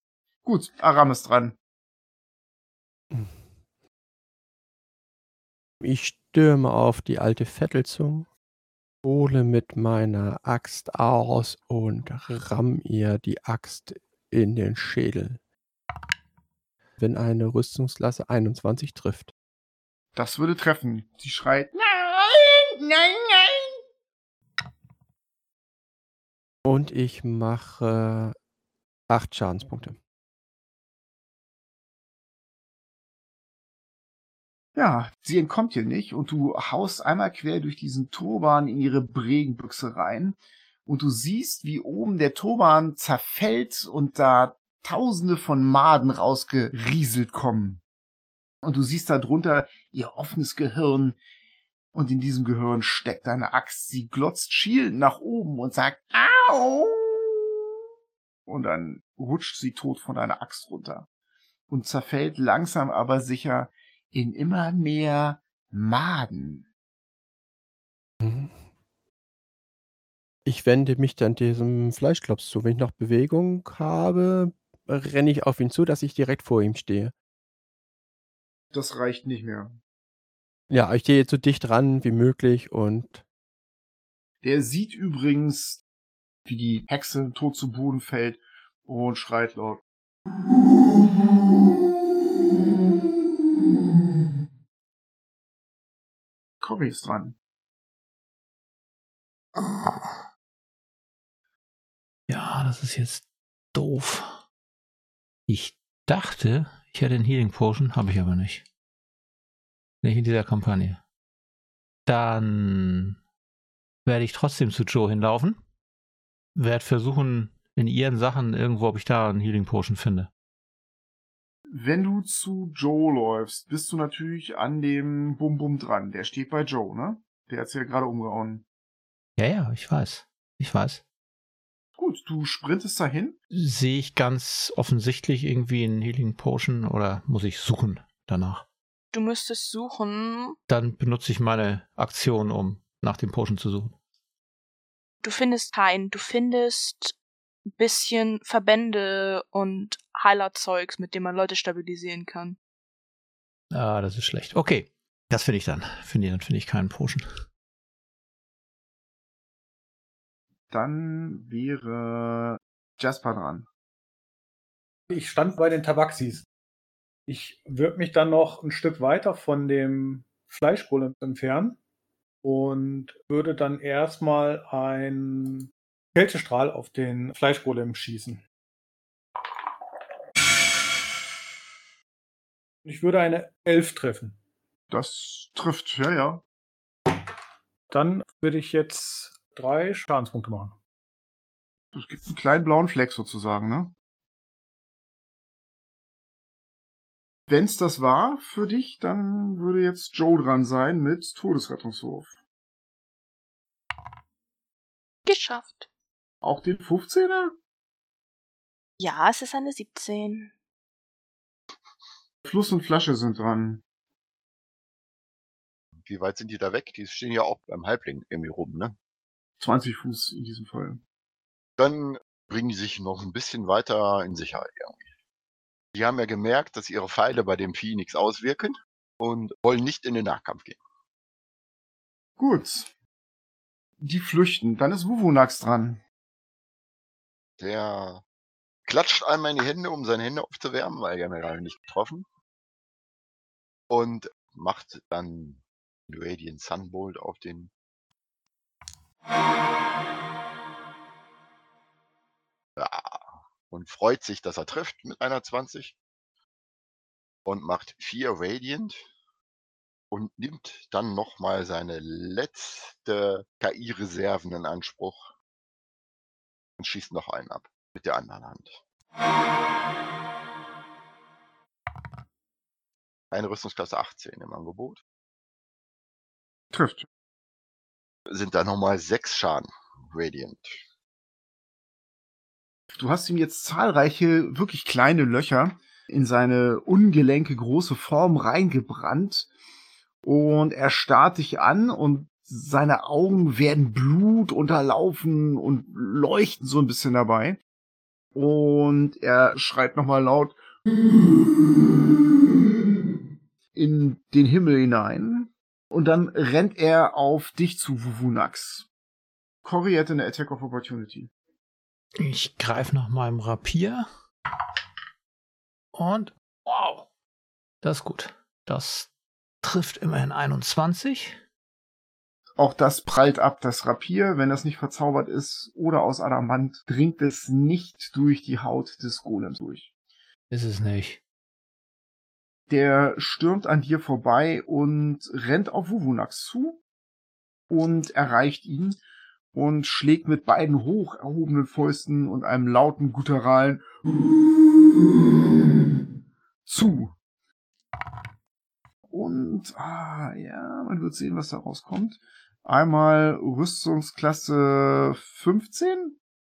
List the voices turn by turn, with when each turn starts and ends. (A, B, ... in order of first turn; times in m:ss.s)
0:00.4-0:01.6 A
0:05.8-0:08.3 B
0:09.0-0:15.4 B
0:17.0-0:19.3 B
0:20.2-0:23.8 A
0:26.6-0:28.4 B
0:29.1-0:30.0 B
0:34.8-0:47.8 A
0:48.6-0:51.2 A
0:51.9-0:57.6 A
0:58.5-1:01.1 A
1:01.7-1:06.7 A
1:08.2-1:08.5 B
1:10.5-1:17.1 B
1:18.7-1:19.7 A
1:20.7-1:23.2 B
1:24.4-1:25.8 A
1:26.5-1:29.8 A
1:30.8-1:31.7 A
1:36.6-1:37.4 A
1:39.6-1:39.9 C
1:42.3-1:44.4 C
1:45.5-1:48.6 C
1:50.0-1:51.0 C
1:52.1-1:53.2 C
1:54.0-1:55.6 C
1:56.6-2:00.3 C
2:01.7-2:08.6 A
2:09.4-2:11.0 C
2:12.0-2:13.4 A
2:13.5-2:18.6 C
2:19.1-2:20.6 D
2:20.7-2:24.0 C
2:25.2-2:27.2 D
2:27.8-2:32.6 D
2:33.7-2:37.3 C
2:40.7-2:43.7 A
2:45.1-2:46.5 E
2:47.3-2:51.8 E
2:52.4-2:58.4 E
3:02.8-3:04.4 E
3:04.9-3:06.4 A
3:07.9-3:10.8 E
3:11.9-3:13.9 A
3:17.5-3:22.3 A
3:25.2-3:25.9 D
3:26.4-3:27.6 A
3:29.0-3:30.5 D
3:32.4-3:33.8 A
3:36.0-3:39.0 F
3:39.6-3:41.0 A
3:41.8-3:45.0 F
3:45.9-3:50.8 F
3:52.4-3:52.9 A
3:54.0-3:56.0 A
3:57.6-3:58.2 F
3:58.9-4:02.2 F
4:03.9-4:07.7 F
4:12.8-4:16.0 F
4:17.5-4:19.0 F
4:20.1-4:25.3 F
4:26.8-4:28.8 F
4:33.3-4:35.0 F
4:36.7-4:37.1 A
4:38.3-4:40.8 F
4:42.9-4:49.5 A
4:50.2-4:57.6 A
4:58.4-5:00.6 A
5:02.0-5:02.3 A
5:03.8-5:08.9 A
5:09.6-5:11.3 A
5:12.2-5:14.1 C
5:15.9-5:17.1 C
5:17.8-5:19.1 C
5:19.6-5:21.4 C
5:22.6-5:29.9 A
5:30.5-5:31.2 C
5:32.7-5:36.8 A
5:37.7-5:39.0 A
5:39.5-5:45.2 A
5:46.6-5:47.1 A
5:49.1-5:56.2 A